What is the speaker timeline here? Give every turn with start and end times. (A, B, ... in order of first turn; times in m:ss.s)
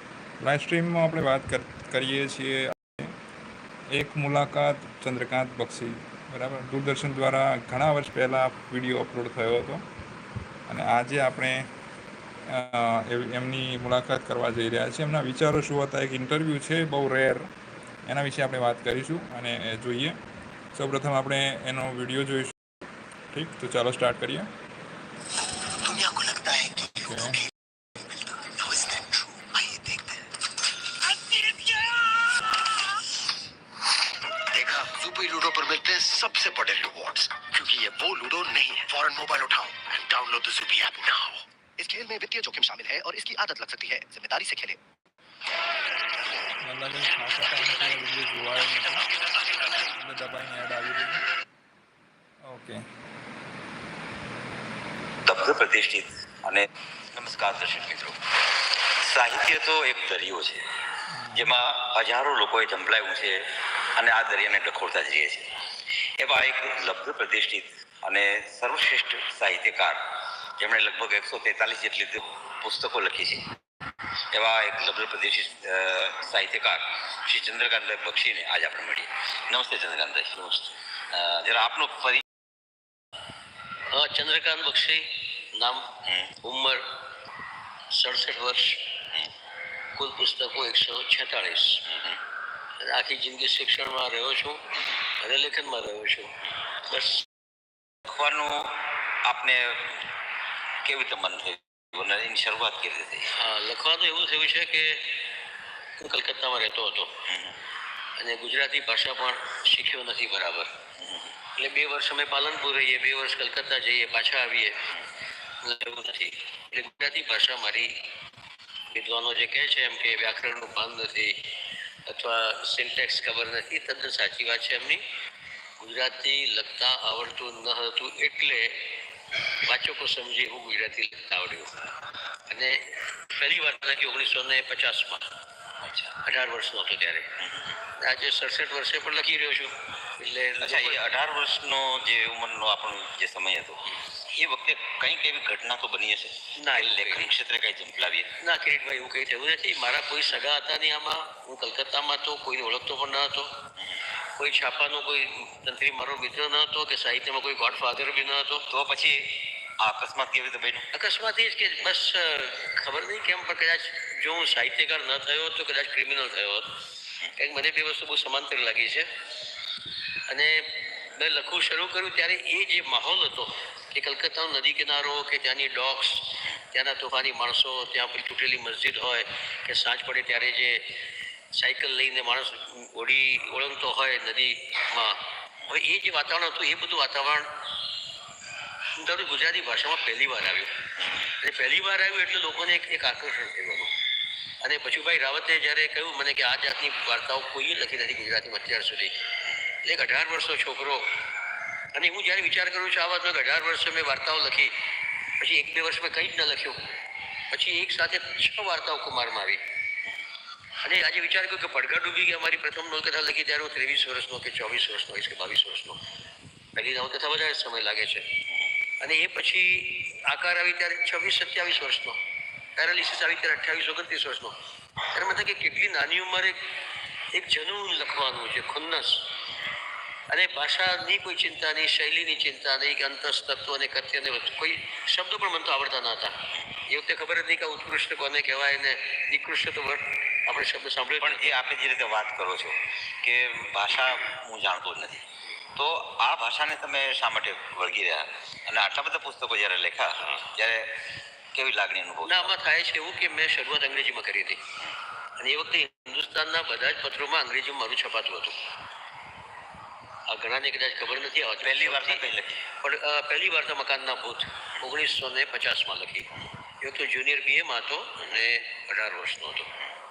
0:00.4-0:03.2 A
0:03.9-0:09.8 A
0:10.7-0:11.7 A
0:12.5-0:17.5 A
0:18.1-0:20.2 A
0:20.8-0:22.6 A
0:23.3-0:24.5 A
0:25.8-0:27.0 B
0:26.9-0:27.4 A
0:28.4-0:30.2 B
0:31.2-0:32.3 B
0:34.4-0:44.8 B
0:46.6-0:49.1 A
0:49.7-0:51.2 A
0:52.5-0:52.8 A
0:55.2-0:58.2 C
0:59.0-1:00.6 C
1:01.1-1:01.5 A
1:01.3-1:03.4 C
1:04.0-1:05.5 C
1:06.2-1:10.0 C
1:10.6-1:13.4 C
1:14.3-1:20.4 C
1:20.4-1:20.7 D
1:21.1-1:22.2 C
1:23.9-1:25.8 D
1:26.0-1:26.3 C
1:26.4-1:26.8 D
1:27.9-1:28.8 D
1:30.0-1:31.8 D
1:31.9-1:32.2 C
1:32.8-1:34.6 D
1:35.2-1:36.3 D
1:36.9-1:37.3 D
1:38.1-1:40.0 C
1:40.8-1:43.3 C
1:43.4-1:45.1 D
1:46.0-1:47.1 D
1:47.3-1:47.6 C
1:48.2-1:50.7 D
1:51.0-1:51.3 C
1:51.6-1:54.8 D
1:55.6-1:57.9 D
1:58.9-2:01.4 D
2:02.1-2:05.0 D
2:05.8-2:08.8 D
2:09.7-2:11.8 D
2:12.5-2:15.3 D
2:15.8-2:16.2 C
2:16.2-2:17.3 D
2:17.4-2:17.8 C
2:18.0-2:21.1 D
2:20.6-2:28.3 C
2:26.6-2:27.3 D
2:28.4-2:33.5 D
2:34.4-2:38.6 D
2:38.7-2:40.9 C
2:40.9-2:46.7 D
2:47.4-2:49.1 D
2:50.3-2:50.6 D
2:51.2-3:00.8 D
3:01.5-3:07.5 D
3:09.0-3:10.7 D
3:11.0-3:11.3 C
3:11.4-3:13.9 D
3:14.6-3:19.2 D
3:19.8-3:21.1 D
3:22.0-3:24.7 D
3:25.4-3:26.8 D
3:27.5-3:29.6 D
3:30.8-3:36.0 D
3:36.8-3:38.3 D
3:39.0-3:42.2 D
3:42.8-3:44.6 D
3:45.1-3:46.6 D
3:47.3-3:49.2 D
3:50.3-3:56.4 D
3:56.9-4:01.6 D
4:01.2-4:05.2 C
4:05.8-4:10.9 C
4:11.5-4:12.5 C
4:12.2-4:14.6 D
4:15.4-4:18.6 D
4:20.3-4:22.2 D
4:21.6-4:22.6 C
4:22.8-4:26.3 D
4:26.8-4:29.7 D